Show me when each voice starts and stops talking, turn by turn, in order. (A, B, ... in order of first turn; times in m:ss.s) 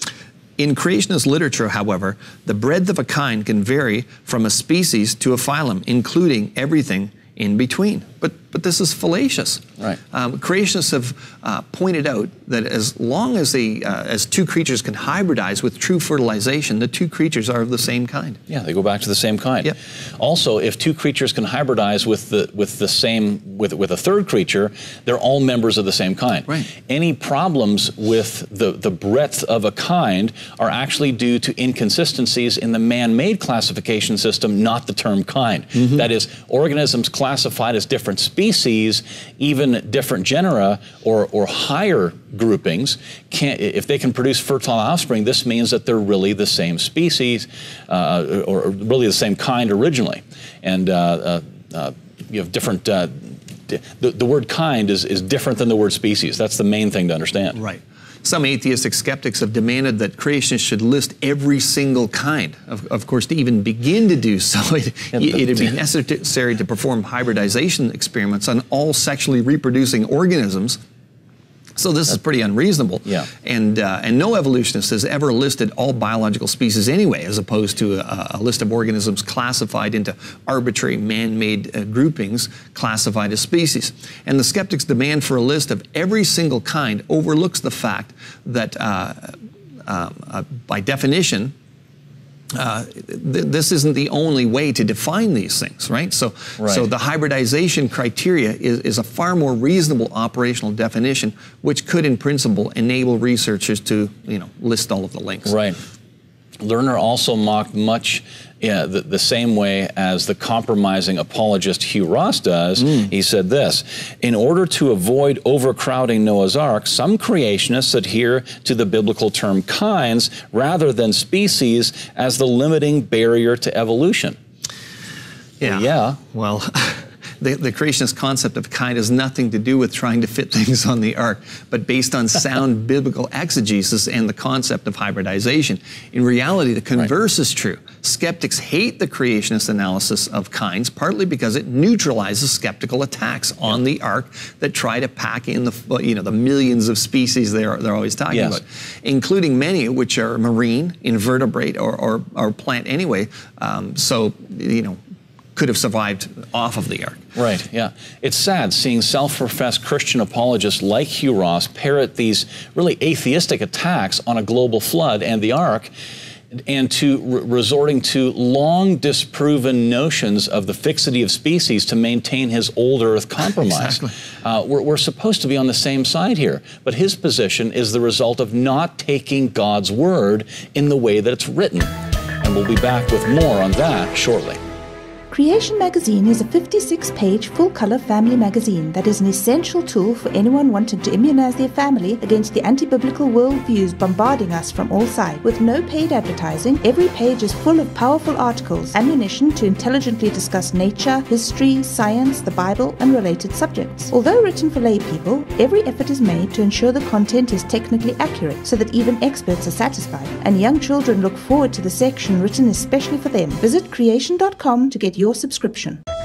0:00.6-0:18.4 A
0:18.5-0:57.6 B
0:57.5-1:10.8 A
1:05.2-1:05.7 B
1:11.8-1:31.5 A
1:32.5-1:45.5 A
1:36.6-1:36.9 B
1:45.5-1:45.8 B
1:46.6-2:04.4 B
1:52.8-1:53.1 A
2:05.6-2:35.0 A
2:05.6-2:06.2 B
2:28.3-2:28.6 B
2:35.5-2:37.2 A
2:37.4-2:45.9 B
2:46.5-3:04.6 B
2:53.6-2:54.1 A
3:05.3-3:36.0 C